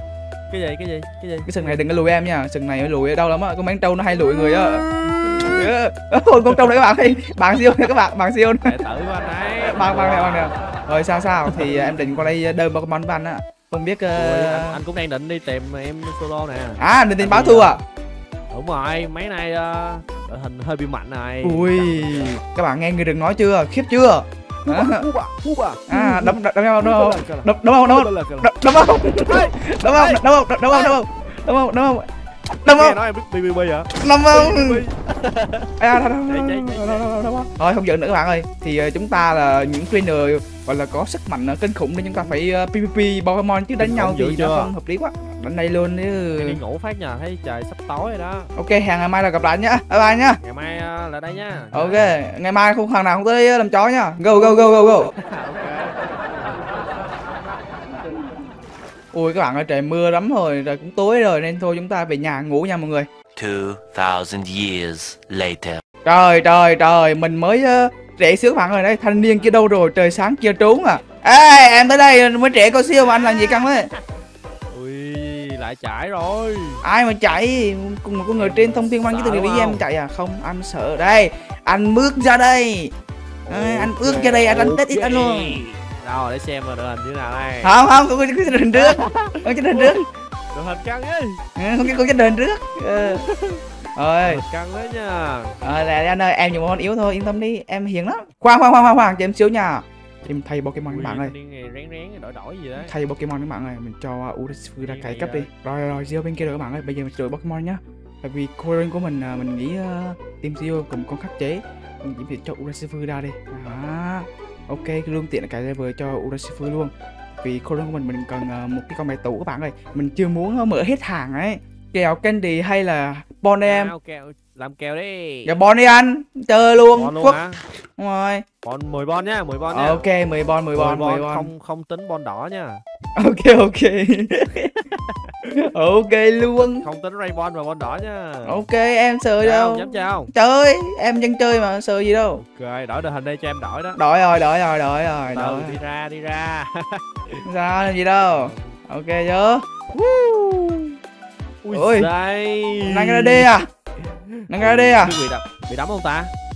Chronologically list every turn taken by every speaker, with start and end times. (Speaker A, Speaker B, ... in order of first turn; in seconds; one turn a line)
Speaker A: 0.5-1.9
Speaker B: 1.4-8.7
Speaker A: 4.1-5.7
Speaker A: 8.6-10.5
Speaker B: 9.6-14.8
Speaker A: 11.5-11.9
Speaker A: 14.1-17.7
Speaker B: 16.8-17.8
Speaker A: 18.5-22.4
Speaker B: 21.4-25.1
Speaker A: 24.6-28.5
Speaker B: 25.9-32.1
Speaker A: 29.2-31.0
Speaker B: 32.6-33.0
Speaker A: 32.6-35.7
Speaker B: 33.9-34.8
Speaker B: 35.8-46.6
Speaker A: 36.2-37.1
Speaker A: 43.8-44.7
Speaker A: 46.4-48.5
Speaker B: 48.5-50.4
Speaker A: 50.4-52.2
Speaker B: 51.7-55.1
Speaker A: 55.1-56.5
Speaker B: 59.1-63.1
Speaker C: 63.4-65.8
Speaker B: 66.0-73.9
Speaker A: 73.0-74.0
Speaker A: 74.7-76.8
Speaker B: 76.8-82.9
Speaker A: 78.4-79.8
Speaker A: 83.5-87.7
Speaker B: 83.5-85.6
Speaker B: 87.6-90.0
Speaker A: 88.5-91.4
Speaker B: 91.6-93.2
Speaker A: 92.9-93.6
Speaker B: 94.0-94.4
Speaker A: 94.2-95.6
Speaker B: 95.6-101.3
Speaker A: 100.9-102.9
Speaker B: 102.8-123.9
Speaker A: 104.8-105.5
Speaker A: 123.6-125.5
Speaker B: 125.4-127.4
Speaker A: 126.9-127.6
Speaker B: 128.0-128.4
Speaker A: 128.6-130.1
Speaker B: 129.7-131.5
Speaker A: 130.7-132.8
Speaker B: 133.2-134.8
Speaker B: 135.4-136.8
Speaker A: 136.8-138.6
Speaker B: 138.4-142.4
Speaker A: 139.4-140.3
Speaker A: 142.4-144.0
Speaker B: 144.0-145.8
Speaker A: 145.2-147.4
Speaker B: 147.4-149.6
Speaker A: 148.3-148.8
Speaker A: 149.9-151.0
Speaker A: 151.6-156.3
Speaker B: 151.7-152.1
Speaker B: 152.9-153.7
Speaker B: 154.5-155.2